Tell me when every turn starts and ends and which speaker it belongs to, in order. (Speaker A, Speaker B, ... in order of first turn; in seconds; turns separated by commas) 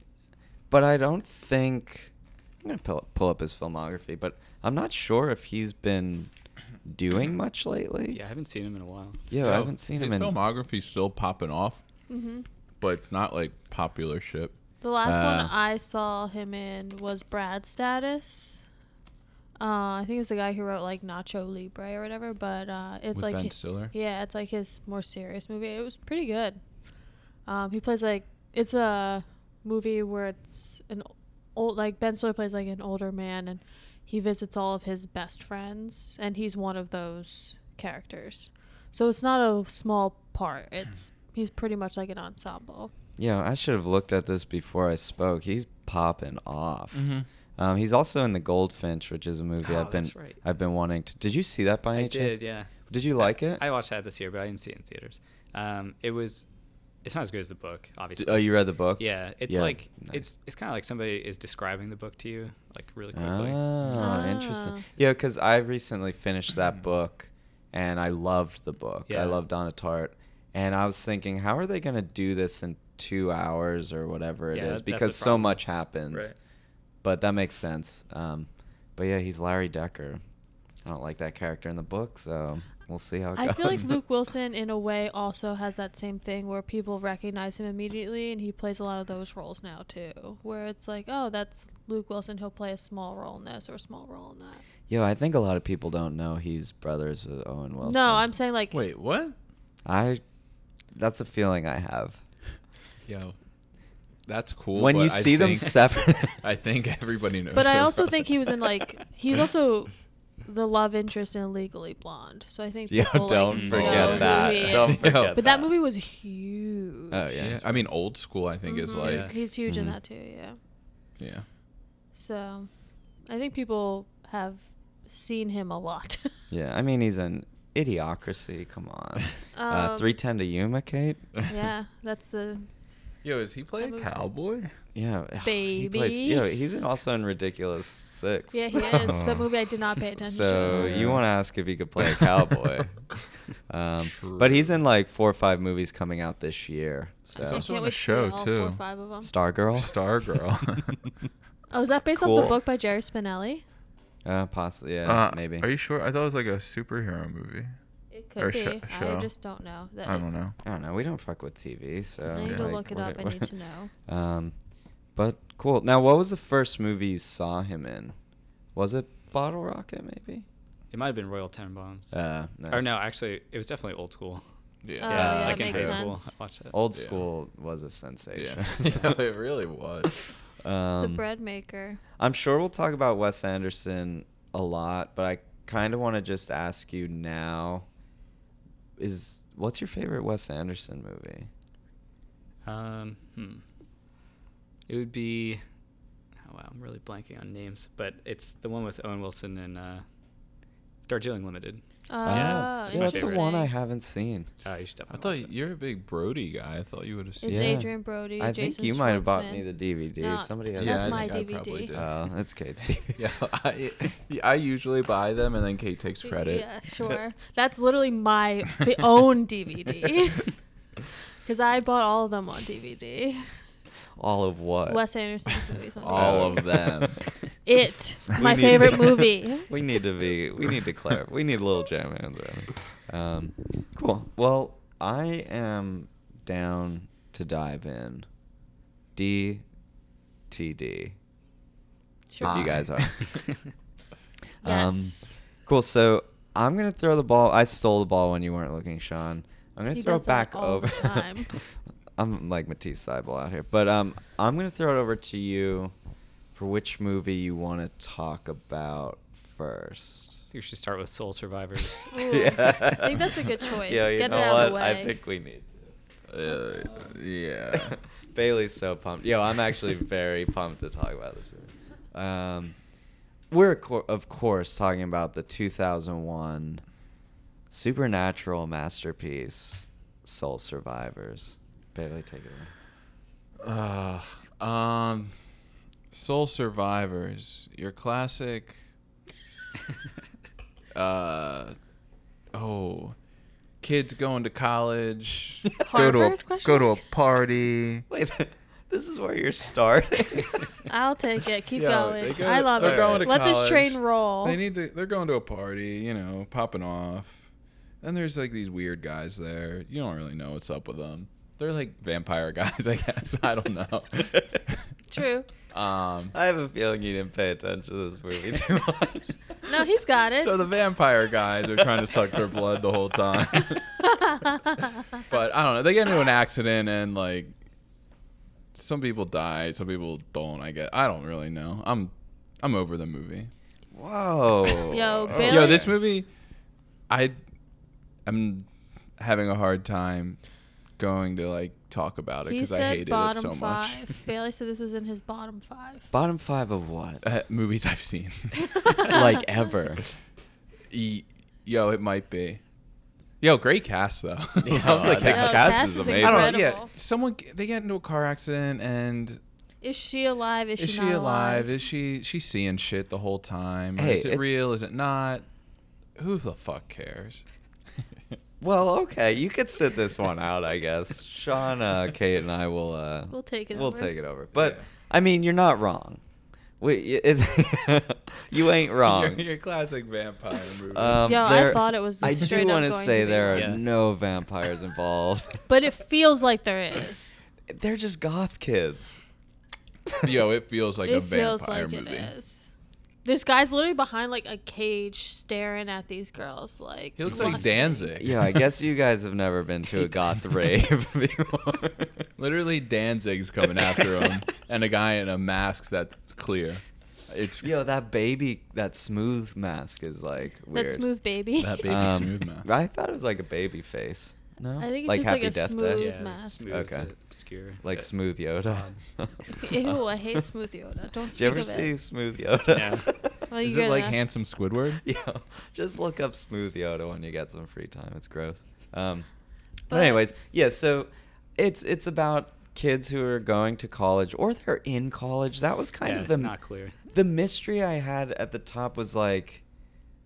Speaker A: 0.7-6.3, Speaker A: 6.8-8.2, Speaker B: 8.1-9.2, Speaker A: 9.3-10.3, Speaker C: 9.4-11.8, Speaker D: 12.1-12.5, Speaker C: 12.8-14.6, Speaker D: 14.8-18.6, Speaker A: 15.0-15.5, Speaker D: 19.6-26.6, Speaker C: 23.1-23.9, Speaker D: 27.5-42.9, Speaker A: 43.2-53.6, Speaker C: 46.9-47.3, Speaker B: 49.6-50.4, Speaker B: 51.9-56.5, Speaker B: 57.0-63.6, Speaker A: 58.2-60.3, Speaker A: 63.1-76.3, Speaker D: 64.0-64.8, Speaker B: 69.1-69.4, Speaker B: 74.5-76.3, Speaker A: 77.0-80.2, Speaker A: 80.8-83.9, Speaker D: 83.4-94.6, Speaker A: 94.9-98.3, Speaker D: 97.8-98.8, Speaker C: 98.7-99.3, Speaker A: 99.8-100.2, Speaker A: 100.9-102.2, Speaker C: 103.1-103.3, Speaker C: 104.3-108.7, Speaker A: 104.7-106.4, Speaker D: 107.5-117.5, Speaker A: 112.9-115.7, Speaker B: 113.5-114.3, Speaker C: 113.7-115.4, Speaker A: 117.1-117.9, Speaker C: 117.4-119.5, Speaker D: 118.7-120.6, Speaker B: 119.0-119.4, Speaker A: 119.7-120.0, Speaker C: 121.2-121.5, Speaker D: 122.2-122.7, Speaker D: 123.3-126.3, Speaker A: 126.5-131.3, Speaker D: 129.6-130.1, Speaker D: 131.5-132.7, Speaker C: 133.2-134.7, Speaker D: 133.8-134.3, Speaker A: 134.9-139.4, Speaker D: 135.4-136.4, Speaker D: 138.5-141.1, Speaker A: 140.2-143.0, Speaker C: 140.7-141.2, Speaker A: 143.7-147.7, Speaker C: 144.0-144.7, Speaker C: 147.4-148.8, Speaker D: 147.4-149.3, Speaker A: 149.2-149.9, Speaker C: 149.8-151.0, Speaker D: 151.7-153.6, Speaker A: 152.1-152.6, Speaker A: 154.2-155.7, Speaker C: 155.1-157.7, Speaker D: 158.1-160.2, Speaker C: 158.4-159.3, Speaker C: 160.1-160.6, Speaker A: 160.6-163.5, Speaker D: 162.3-163.9, Speaker C: 162.4-162.7, Speaker A: 164.1-164.6, Speaker A: 165.2-168.2, Speaker A: 168.8-170.5, Speaker B: 170.9-172.2, Speaker A: 172.1-172.9, Speaker B: 172.7-174.4, Speaker C: 174.8-175.9, Speaker D: 175.0-176.3, Speaker B: 175.0-176.8, Speaker A: 175.2-176.0, Speaker A: 176.7-179.2, Speaker C: 176.9-177.3, Speaker C: 178.3-180.2, Speaker A: 180.6-181.2, Speaker D: 181.0-182.0, Speaker A: 182.2-187.9, Speaker A: 189.0-191.5, Speaker B: 192.7-193.6, Speaker B: 194.9-195.6, Speaker B: 196.4-200.1, Speaker B: 201.1-203.4, Speaker D: 202.1-203.7, Speaker A: 202.2-204.5, Speaker C: 202.3-202.6, Speaker B: 204.6-205.5, Speaker C: 205.1-207.8, Speaker D: 207.4-209.6, Speaker A: 207.5-211.3, Speaker D: 210.2-211.9, Speaker C: 210.8-212.2, Speaker A: 211.9-213.2, Speaker C: 213.1-216.7, Speaker D: 216.2-220.6, Speaker D: 221.4-223.5, Speaker A: 224.2-225.0, Speaker D: 224.9-226.8, Speaker C: 226.0-227.3, Speaker A: 226.1-227.2, Speaker D: 227.7-229.7, Speaker A: 228.3-238.3, Speaker A: 239.2-239.6, Speaker A: 240.5-241.2, Speaker D: 242.3-242.7, Speaker A: 242.4-243.4, Speaker C: 242.4-243.1, Speaker A: 244.6-255.9, Speaker D: 244.6-245.4, Speaker D: 249.9-251.6, Speaker A: 256.6-260.4, Speaker B: 260.5-262.1, Speaker D: 262.1-265.1, Speaker A: 262.3-265.9, Speaker C: 266.3-268.0, Speaker D: 266.5-266.8, Speaker A: 267.7-272.8, Speaker A: 273.5-276.8, Speaker A: 277.7-282.7, Speaker C: 283.6-285.3, Speaker C: 286.1-288.8, Speaker C: 290.9-291.8, Speaker C: 292.5-293.2, Speaker C: 293.8-298.1, Speaker D: 295.8-297.0, Speaker A: 298.1-300.7, Speaker D: 300.9-304.6, Speaker C: 301.7-307.5, Speaker A: 302.8-303.4, Speaker C: 308.0-314.8, Speaker D: 315.1-315.5, Speaker C: 315.7-316.3, Speaker A: 316.3-319.4, Speaker D: 319.7-320.6, Speaker C: 320.4-324.1, Speaker C: 325.2-327.5, Speaker C: 328.7-333.5, Speaker A: 333.9-335.9, Speaker D: 334.9-335.9, Speaker C: 335.4-336.3, Speaker C: 337.1-337.4, Speaker C: 338.3-338.7, Speaker C: 339.2-340.4, Speaker C: 341.0-344.1, Speaker D: 342.5-346.1, Speaker A: 346.1-347.2, Speaker C: 347.2-349.2, Speaker D: 348.7-349.4, Speaker A: 349.1-350.0, Speaker C: 350.9-352.6, Speaker C: 353.4-359.4, Speaker A: 354.6-356.6, Speaker D: 355.1-356.9, Speaker D: 359.8-361.7, Speaker C: 360.8-365.4, Speaker A: 364.0-364.4, Speaker C: 366.2-367.4, Speaker A: 368.6-376.2, Speaker D: 373.3-374.1, Speaker C: 374.6-374.9, Speaker A: 376.8-379.4, Speaker C: 379.0-381.4, Speaker A: 380.9-385.6, Speaker D: 381.2-383.8, Speaker B: 383.5-383.8, Speaker D: 385.7-387.4, Speaker A: 387.7-389.2, Speaker C: 390.2-392.3, Speaker D: 391.1-392.7, Speaker D: 393.2-398.1, Speaker C: 397.2-398.6, Speaker A: 398.2-402.3, Speaker C: 402.4-407.6, Speaker A: 407.6-411.1, Speaker D: 410.7-412.1, Speaker C: 411.6-412.7, Speaker A: 411.8-417.1, Speaker D: 414.8-416.8, Speaker B: 415.9-418.1, Speaker A: 417.8-420.4, Speaker B: 418.6-419.5, Speaker D: 419.6-421.9, Speaker A: 421.3-423.4, Speaker B: 422.7-423.1, Speaker D: 423.5-424.2, Speaker C: 423.6-425.0, Speaker A: 425.0-429.3, Speaker D: 429.9-430.2, Speaker A: 429.9-436.5, Speaker B: 436.0-437.0, Speaker A: 437.1-439.6